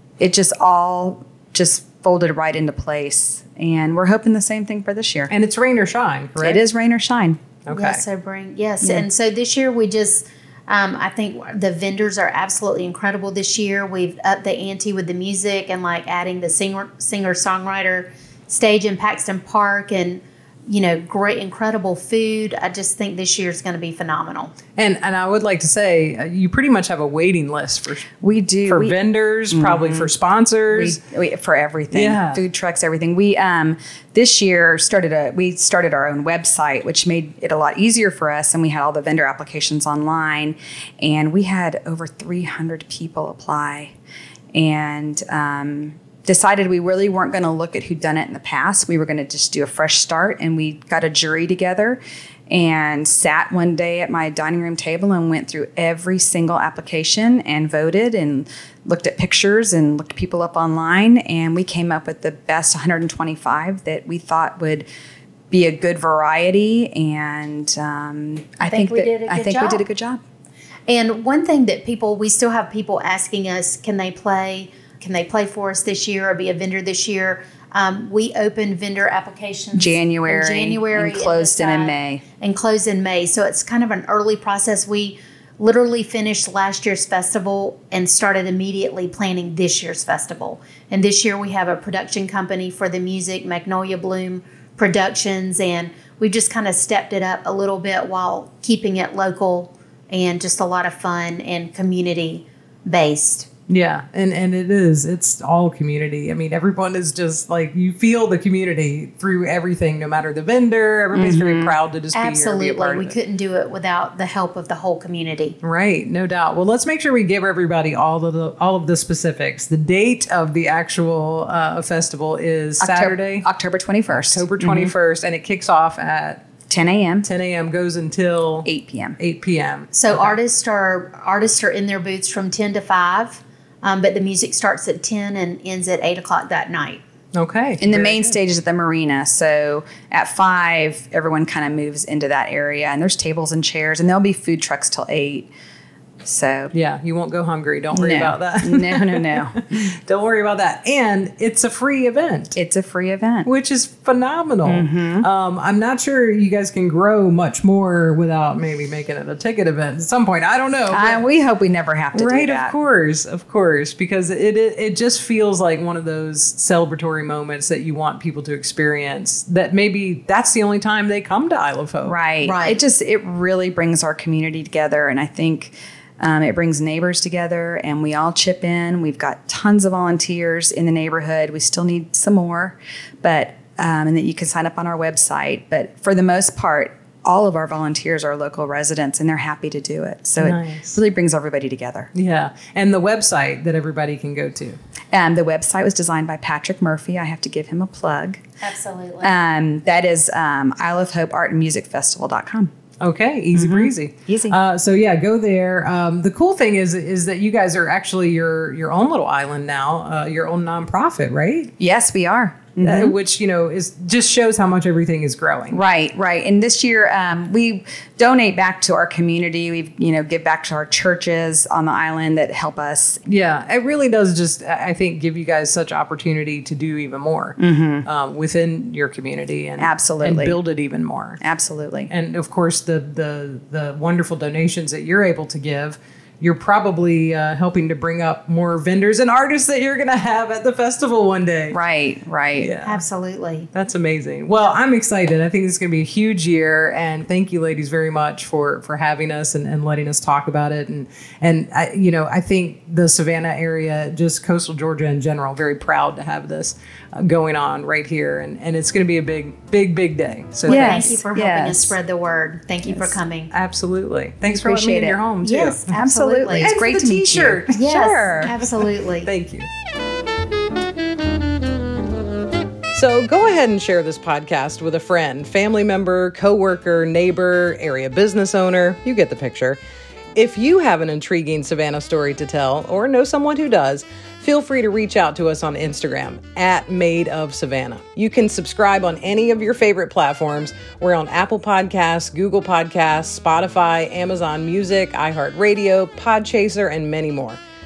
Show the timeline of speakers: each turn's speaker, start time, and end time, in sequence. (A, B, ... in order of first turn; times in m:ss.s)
0:00.2-0:05.3 A
0:05.3-0:06.6 B
0:06.4-0:07.4 A
0:07.6-0:08.0 B
0:07.7-0:24.5 C
0:08.8-0:09.1 A
0:24.8-0:28.1 B
0:28.2-0:29.0 A
0:28.6-0:31.0 B
0:29.5-0:30.1 A
0:30.7-0:43.9 A
0:31.9-0:32.4 B
0:44.5-1:04.9 A
1:05.5-1:10.2 A
1:08.6-1:09.8 C
1:10.9-1:43.5 C
1:19.8-1:22.2 A
1:43.7-1:53.2 B
1:51.1-1:51.8 A
1:52.1-1:55.6 C
1:55.6-2:03.5 B
2:02.8-2:04.9 A
2:04.1-2:06.4 B
2:06.7-2:07.3 A
2:07.2-2:08.7 B
2:08.6-2:09.2 A
2:09.2-2:10.4 B
2:09.9-2:17.0 C
2:17.3-2:18.4 B
2:17.8-2:25.5 A
2:26.2-2:26.7 A
2:26.7-2:32.6 B
2:27.9-2:29.8 A
2:32.5-2:33.5 A
2:33.4-2:41.2 B
2:34.6-2:35.3 A
2:40.9-2:42.7 A
2:42.1-2:52.2 B
2:52.0-3:12.1 A
2:52.4-2:52.8 C
3:10.4-3:11.0 B
3:12.2-3:14.8 B
3:15.1-3:18.4 A
3:18.6-3:19.3 C
3:19.2-3:22.7 A
3:23.0-3:31.7 B
3:23.5-3:24.6 A
3:31.8-3:33.2 A
3:32.8-3:35.8 B
3:35.7-3:43.2 A
3:43.3-3:51.4 B
3:47.6-3:48.0 A
3:49.8-3:50.6 A
3:51.4-3:52.1 A
3:52.1-4:01.8 B
4:01.7-4:02.7 A
4:02.6-4:03.0 B
4:02.8-4:03.7 C
4:03.7-4:21.2 B
4:20.7-4:22.0 A
4:20.7-4:23.5 C
4:22.8-4:23.2 A
4:23.5-4:27.8 B
4:24.5-4:25.2 A
4:25.4-4:26.8 C
4:25.9-4:28.5 A
4:27.7-4:29.3 C
4:28.4-4:29.7 B
4:32.9-4:39.8 B
4:40.4-4:57.6 B